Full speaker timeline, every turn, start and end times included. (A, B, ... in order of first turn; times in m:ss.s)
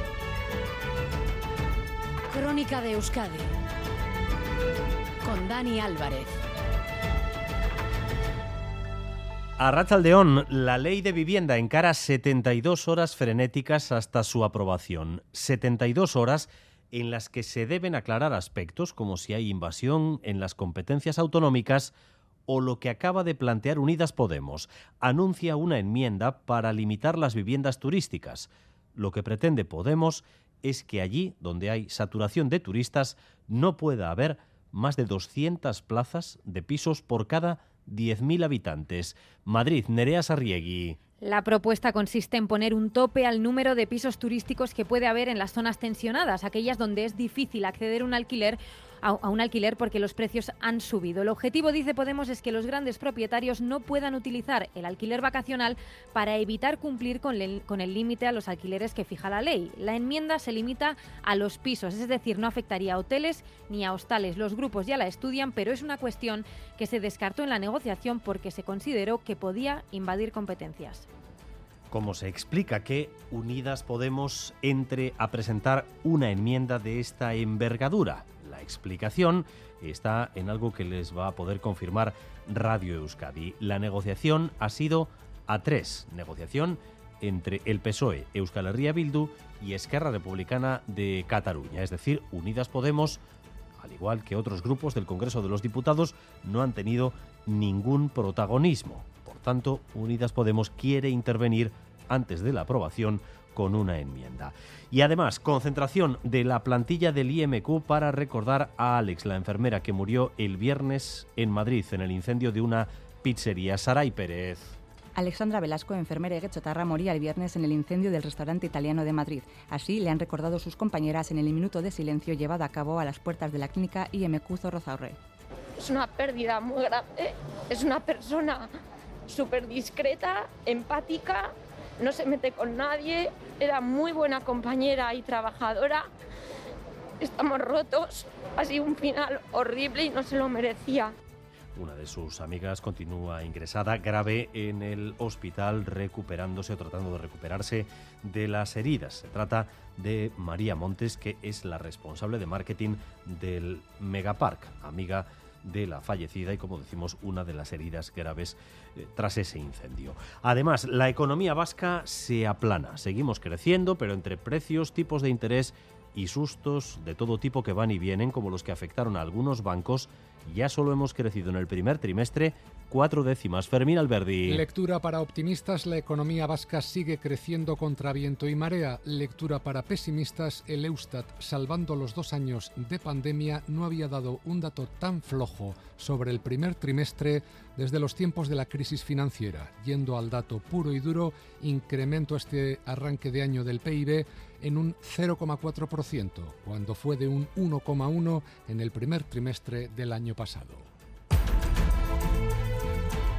0:02.3-0:03.5 A
0:05.2-0:06.3 A
0:09.6-0:21.9 B
0:22.5-0:41.0 B
0:41.2-1:11.0 C
1:11.9-1:33.2 B
1:33.8-1:54.8 B
1:55.1-2:05.2 D
2:05.8-2:08.7 E
2:09.3-2:16.0 E
2:17.2-2:21.1 E
2:21.7-2:54.6 B
2:54.4-3:20.9 F